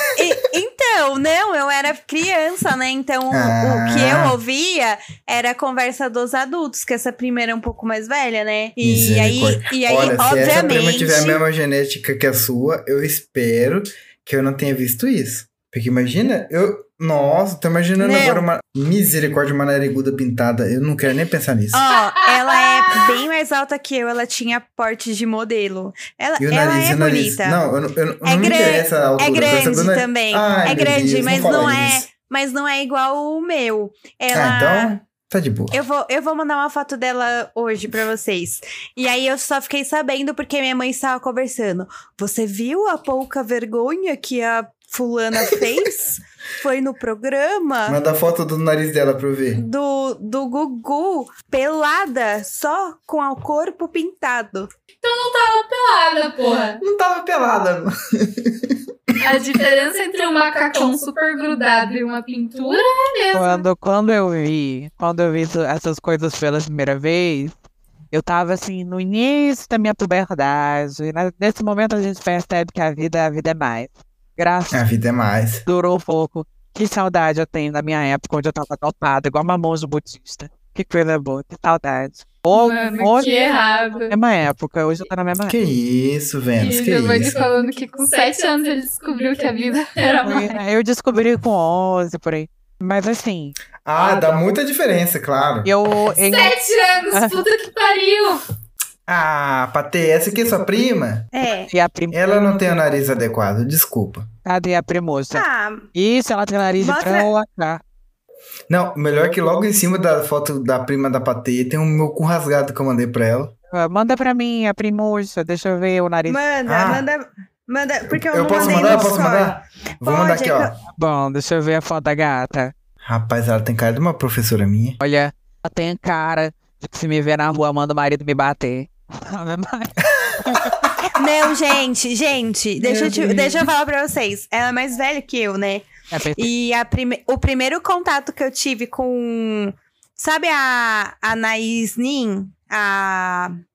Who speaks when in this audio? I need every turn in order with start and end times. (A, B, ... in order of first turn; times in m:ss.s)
0:00.1-0:11.4 A
0:03.3-0:04.4 B
0:08.8-0:21.8 B
0:18.0-0:18.4 A
0:21.7-0:27.6 A
0:22.3-0:23.0 C
0:26.4-0:32.1 B
0:28.2-0:34.9 A
0:34.3-0:35.8 B
0:35.7-0:48.0 A
0:47.9-0:49.6 B
0:49.6-0:54.7 A
0:55.0-0:56.8 C
0:56.8-0:58.8 B
0:59.2-1:03.6 C
1:03.3-1:07.5 D
1:08.1-1:14.8 D
1:14.7-1:15.6 B
1:15.7-1:23.5 D
1:22.5-1:24.1 C
1:24.1-1:25.6 D
1:25.5-1:27.4 B
1:26.6-1:30.6 C
1:30.2-1:33.6 D
1:33.8-1:35.7 B
1:35.6-1:36.6 D
1:36.2-1:38.4 C
1:37.1-1:37.4 D
1:39.1-1:41.3 B
1:41.3-1:41.7 A
1:41.7-1:42.2 D
1:42.1-1:44.3 B
1:44.4-1:47.8 D
1:45.3-1:45.9 A
1:46.8-1:47.3 A
1:48.7-1:53.5 B
1:53.7-1:56.4 D
1:56.3-2:00.7 A
1:56.7-1:57.1 B
1:58.1-2:00.7 B
2:01.0-2:02.7 D
2:03.0-2:05.0 B
2:05.0-2:11.0 D
2:11.2-2:23.6 A
2:12.8-2:13.7 B
2:16.1-2:16.5 D